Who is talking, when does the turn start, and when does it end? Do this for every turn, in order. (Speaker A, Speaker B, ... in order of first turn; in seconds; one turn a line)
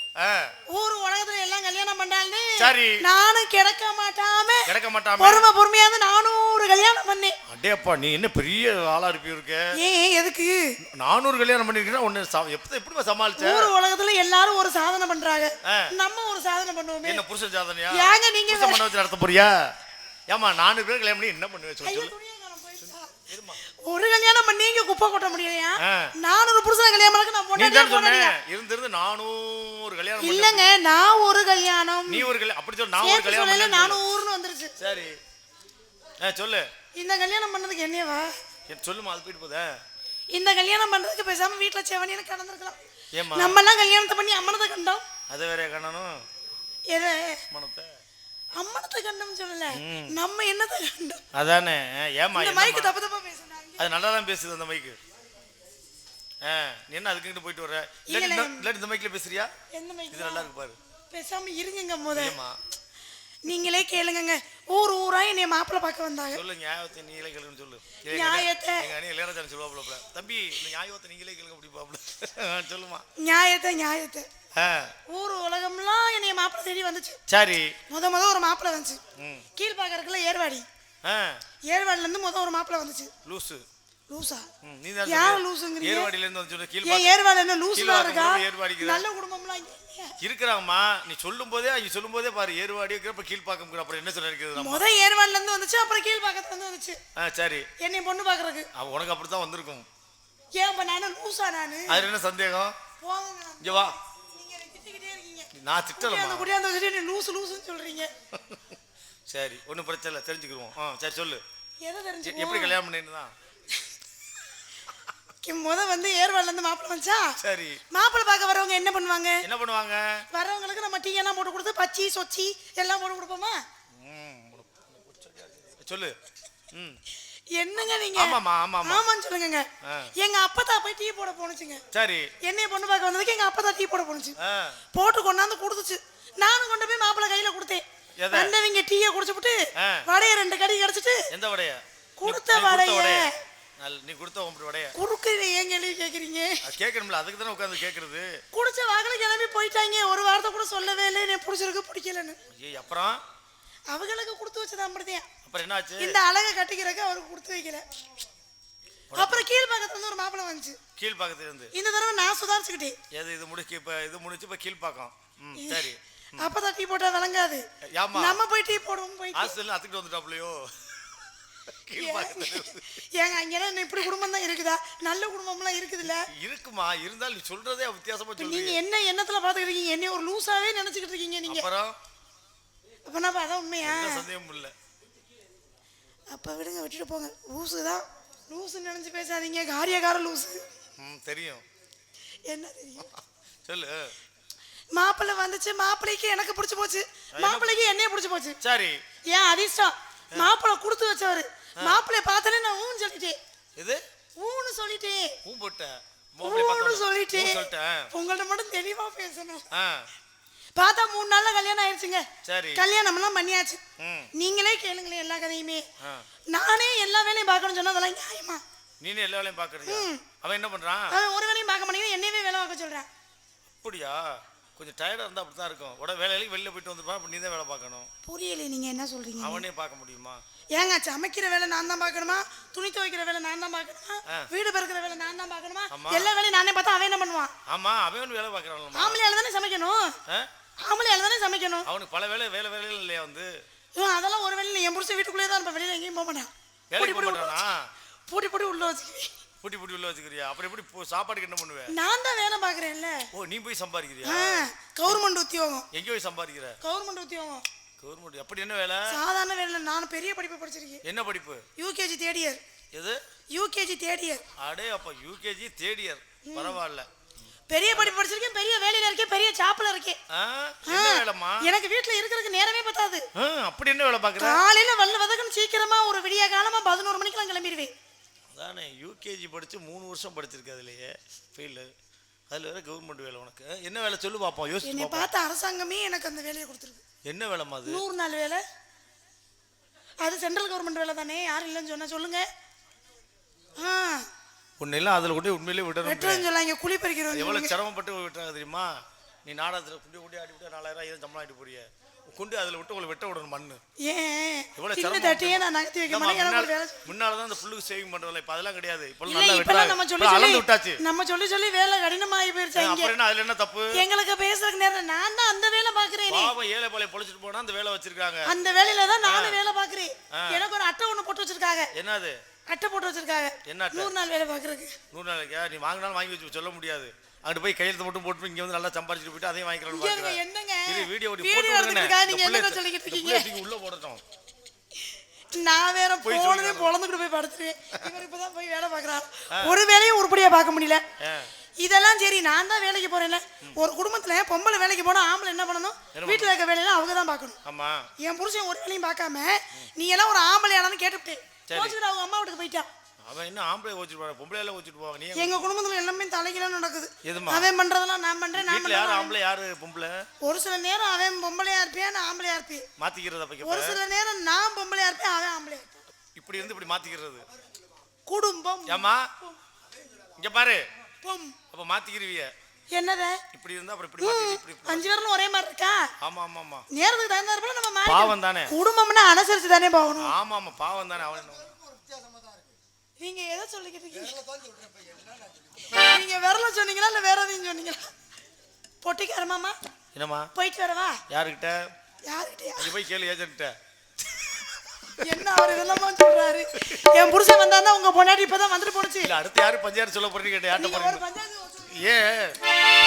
Speaker A: 0.2-0.5
Speaker B: 0.7-7.4
Speaker A: 2.6-3.0
Speaker A: 4.7-5.5
Speaker A: 7.5-9.7
Speaker B: 9.8-10.7
Speaker A: 11.0-13.7
Speaker B: 13.4-17.2
Speaker A: 15.6-15.9
Speaker A: 17.0-19.7
Speaker B: 17.9-18.9
Speaker A: 20.3-22.1
Speaker B: 21.8-28.4
Speaker A: 23.3-23.6
Speaker A: 25.8-26.1
Speaker A: 27.6-30.7
Speaker B: 30.2-32.3
Speaker A: 32.1-34.0
Speaker B: 33.0-34.8
Speaker A: 34.8-35.2
Speaker A: 36.2-36.7
Speaker B: 37.0-38.3
Speaker A: 38.7-39.8
Speaker B: 40.3-42.8
Speaker A: 43.1-43.6
Speaker B: 43.3-45.1
Speaker A: 45.3-46.2
Speaker B: 46.9-47.4
Speaker A: 47.5-47.9
Speaker B: 48.6-51.2
Speaker A: 49.7-50.2
Speaker A: 51.3-52.9
Speaker B: 52.3-53.9
Speaker A: 53.8-55.0
Speaker A: 56.4-59.5
Speaker B: 58.1-58.6
Speaker B: 59.7-60.5
Speaker A: 60.1-60.8
Speaker B: 61.1-62.4
Speaker A: 62.1-62.6
Speaker B: 63.5-66.4
Speaker A: 66.3-73.0
Speaker B: 68.0-68.9
Speaker B: 73.2-74.3
Speaker A: 74.6-75.0
Speaker B: 75.1-77.2
Speaker A: 77.3-77.8
Speaker B: 77.9-79.0
Speaker A: 79.2-79.5
Speaker B: 79.6-80.7
Speaker A: 81.0-81.4
Speaker B: 81.7-83.1
Speaker A: 83.2-83.7
Speaker B: 84.1-84.5
Speaker A: 84.6-87.1
Speaker B: 85.0-86.1
Speaker B: 86.8-90.2
Speaker A: 87.7-89.0
Speaker A: 90.2-94.8
Speaker B: 94.5-97.0
Speaker A: 97.2-97.7
Speaker B: 97.8-98.7
Speaker A: 98.8-99.9
Speaker B: 100.6-102.1
Speaker A: 101.9-102.8
Speaker B: 103.0-108.1
Speaker A: 103.6-104.0
Speaker A: 105.5-106.5
Speaker A: 108.3-108.6
Speaker A: 109.3-111.4
Speaker B: 111.8-112.8
Speaker A: 112.2-113.3
Speaker B: 115.4-117.4
Speaker A: 117.4-117.8
Speaker B: 117.9-119.5
Speaker A: 119.4-120.3
Speaker B: 120.3-123.6
Speaker A: 123.9-126.2
Speaker A: 126.7-127.0
Speaker B: 127.5-131.8
Speaker A: 128.2-129.0
Speaker A: 129.8-130.1
Speaker A: 131.9-132.3
Speaker B: 132.4-134.4
Speaker A: 134.4-134.8
Speaker B: 134.9-141.3
Speaker A: 138.2-138.5
Speaker A: 139.8-140.1
Speaker A: 141.3-145.0
Speaker B: 142.2-143.4
Speaker B: 144.9-146.6
Speaker A: 146.6-148.4
Speaker B: 148.5-152.4
Speaker A: 152.5-153.2
Speaker B: 153.9-155.3
Speaker A: 155.4-156.2
Speaker B: 156.0-157.8
Speaker A: 159.1-159.5
Speaker B: 159.1-160.8
Speaker A: 161.0-161.7
Speaker B: 161.7-163.0
Speaker A: 163.1-166.5
Speaker B: 165.6-169.6
Speaker A: 167.9-168.4
Speaker A: 169.3-173.0
Speaker B: 171.9-176.3
Speaker A: 176.1-178.8
Speaker B: 178.4-181.7
Speaker A: 181.5-182.0
Speaker B: 183.1-184.3
Speaker A: 183.8-184.7
Speaker B: 186.3-190.6
Speaker A: 191.0-191.6
Speaker B: 192.5-193.1
Speaker A: 193.7-194.1
Speaker B: 194.9-198.6
Speaker A: 197.4-197.7
Speaker A: 198.6-199.0
Speaker B: 199.3-203.4
Speaker B: 204.4-205.4
Speaker A: 205.4-208.1
Speaker B: 206.4-209.7
Speaker A: 209.7-210.1
Speaker B: 210.8-213.8
Speaker A: 212.4-212.8
Speaker A: 214.0-214.3
Speaker B: 214.3-215.8
Speaker B: 216.5-218.6
Speaker A: 219.0-221.2
Speaker B: 219.9-220.2
Speaker B: 221.1-223.1
Speaker A: 223.8-228.1
Speaker B: 228.2-229.7
Speaker A: 229.4-230.4
Speaker B: 230.7-237.5
Speaker A: 235.9-236.3
Speaker A: 237.7-239.2
Speaker B: 238.9-240.2
Speaker B: 240.8-241.9
Speaker A: 241.8-243.5
Speaker B: 243.9-247.6
Speaker A: 246.9-247.9
Speaker B: 248.3-249.3
Speaker A: 249.6-251.9
Speaker B: 251.9-253.3
Speaker A: 253.3-255.2
Speaker B: 254.2-255.9
Speaker A: 255.9-256.8
Speaker B: 256.8-257.6
Speaker A: 258.0-259.2
Speaker B: 259.1-261.0
Speaker A: 261.0-261.7
Speaker B: 261.8-262.6
Speaker A: 262.9-263.2
Speaker B: 263.5-264.4
Speaker A: 264.6-267.1
Speaker B: 266.5-266.8
Speaker B: 267.7-270.2
Speaker A: 270.3-271.7
Speaker B: 270.9-273.3
Speaker A: 273.4-274.6
Speaker B: 274.4-277.9
Speaker A: 278.5-281.9
Speaker A: 282.5-285.3
Speaker B: 284.8-287.0
Speaker A: 287.3-288.0
Speaker B: 287.9-288.6
Speaker B: 290.2-292.5
Speaker B: 293.8-294.3
Speaker A: 294.8-296.5
Speaker B: 296.0-297.8
Speaker A: 297.3-298.9
Speaker A: 299.4-303.8
Speaker B: 304.0-307.1
Speaker A: 304.8-311.0
Speaker B: 309.2-313.2
Speaker A: 312.8-314.0
Speaker B: 313.9-316.5
Speaker A: 316.3-318.5
Speaker B: 318.5-321.9
Speaker A: 319.2-319.6
Speaker A: 320.3-320.6
Speaker A: 321.9-322.4
Speaker B: 322.7-325.0
Speaker A: 323.6-324.1
Speaker A: 325.1-334.2
Speaker B: 329.9-333.6
Speaker B: 335.1-341.0
Speaker A: 336.2-336.9
Speaker A: 341.2-341.5
Speaker B: 341.8-347.6
Speaker A: 346.1-346.5
Speaker A: 347.6-348.1
Speaker B: 348.2-352.9
Speaker A: 351.7-352.0
Speaker A: 353.2-355.7
Speaker B: 355.3-359.3
Speaker A: 357.2-357.7
Speaker A: 358.6-360.2
Speaker B: 360.4-362.9
Speaker A: 363.0-364.0
Speaker B: 363.6-365.9
Speaker A: 366.4-367.4
Speaker B: 368.3-369.6
Speaker A: 368.9-369.3
Speaker A: 370.4-370.9
Speaker B: 371.2-371.6
Speaker A: 371.7-372.5
Speaker B: 372.9-373.4
Speaker A: 373.5-375.1
Speaker B: 374.2-376.1
Speaker A: 376.2-376.9
Speaker B: 376.9-380.3
Speaker A: 378.0-378.7
Speaker A: 380.2-381.7
Speaker B: 383.2-384.5
Speaker B: 385.8-388.1
Speaker B: 389.0-389.8
Speaker A: 390.1-390.5
Speaker B: 390.6-391.2
Speaker A: 391.3-391.9
Speaker B: 392.3-392.9
Speaker A: 392.8-393.7
Speaker B: 395.2-399.3
Speaker A: 399.2-401.2
Speaker B: 400.7-402.1
Speaker A: 401.9-402.6